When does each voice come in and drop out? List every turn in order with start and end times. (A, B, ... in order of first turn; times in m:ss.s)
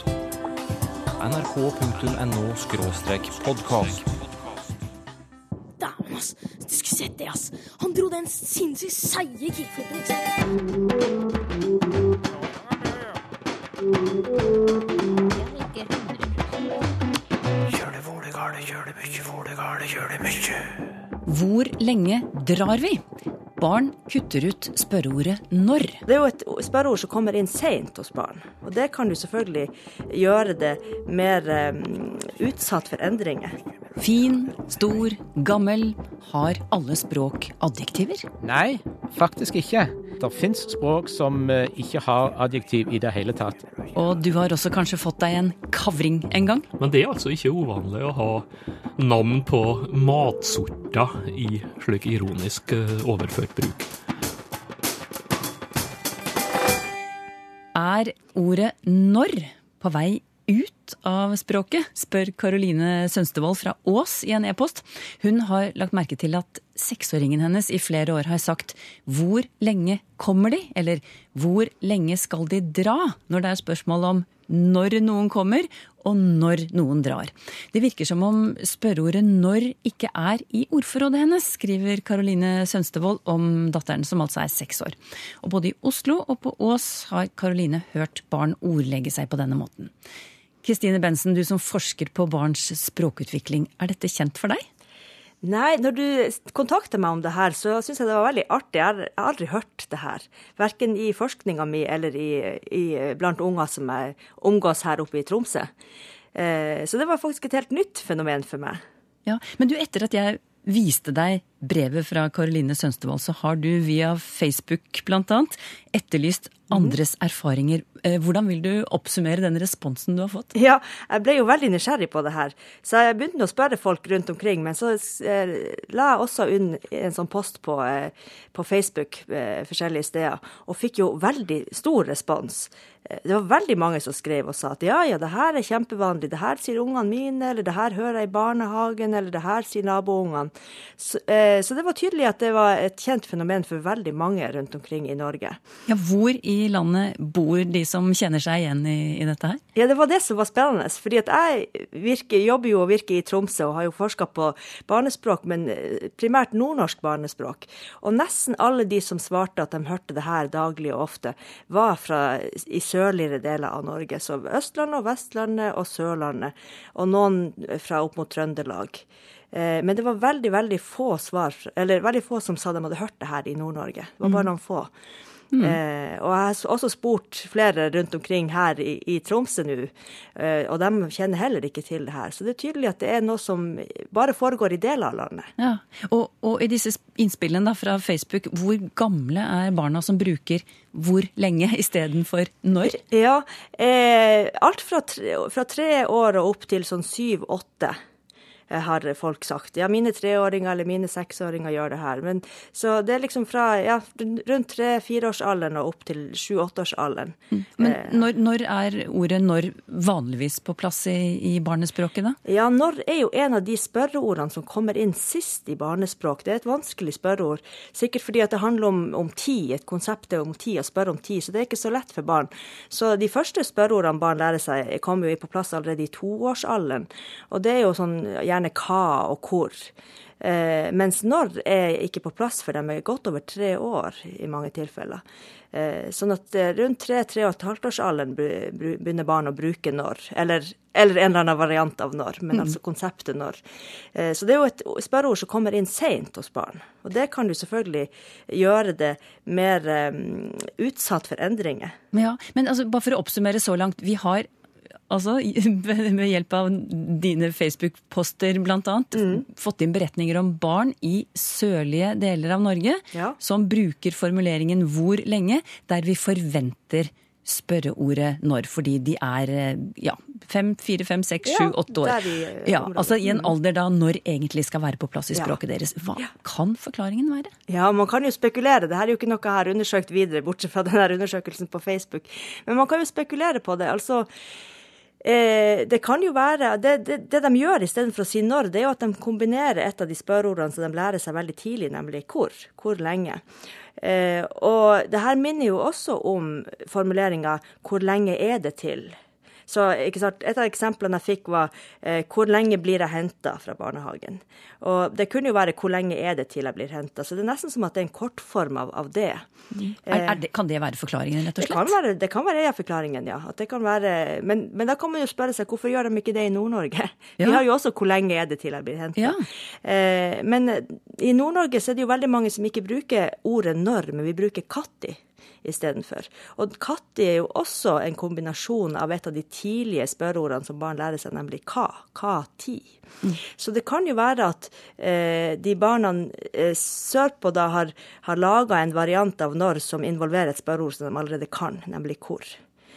0:01.2-0:04.1 A
0:05.8-0:10.6 B
0:15.2-0:16.7 B
0:21.2-0:23.0 C
0:23.6-0:26.0 C
0:26.0-0:33.6 D
0:34.0-0:38.3 C
0:38.4-0:43.7 E
0:44.0-0:46.7 C
0:46.8-0:48.4 F
0:49.0-0:53.9 F
0:57.7-1:29.9 C
1:30.6-1:34.6 C
1:35.4-1:45.7 D
1:46.4-1:48.8 D
1:49.3-2:00.5 C
2:00.6-2:25.6 D
2:25.9-2:29.6 C
2:29.8-2:54.9 D
2:55.5-2:55.8 C
2:55.6-3:05.5 D
3:05.6-3:13.0 C
3:12.8-3:18.0 D
3:18.7-3:28.2 D
3:27.5-3:32.4 C
3:32.4-4:03.6 D
4:04.1-4:11.9 D
4:12.1-4:14.5 C
4:15.1-4:37.5 C
4:19.2-4:19.4 D
4:31.5-4:33.6 D
4:37.7-4:44.3 D
4:45.2-4:53.4 D
4:54.0-4:59.2 D
4:59.7-5:09.5 D
5:09.7-5:11.9 C
5:10.1-5:10.4 D
5:11.6-5:32.9 D
5:33.6-5:42.6 D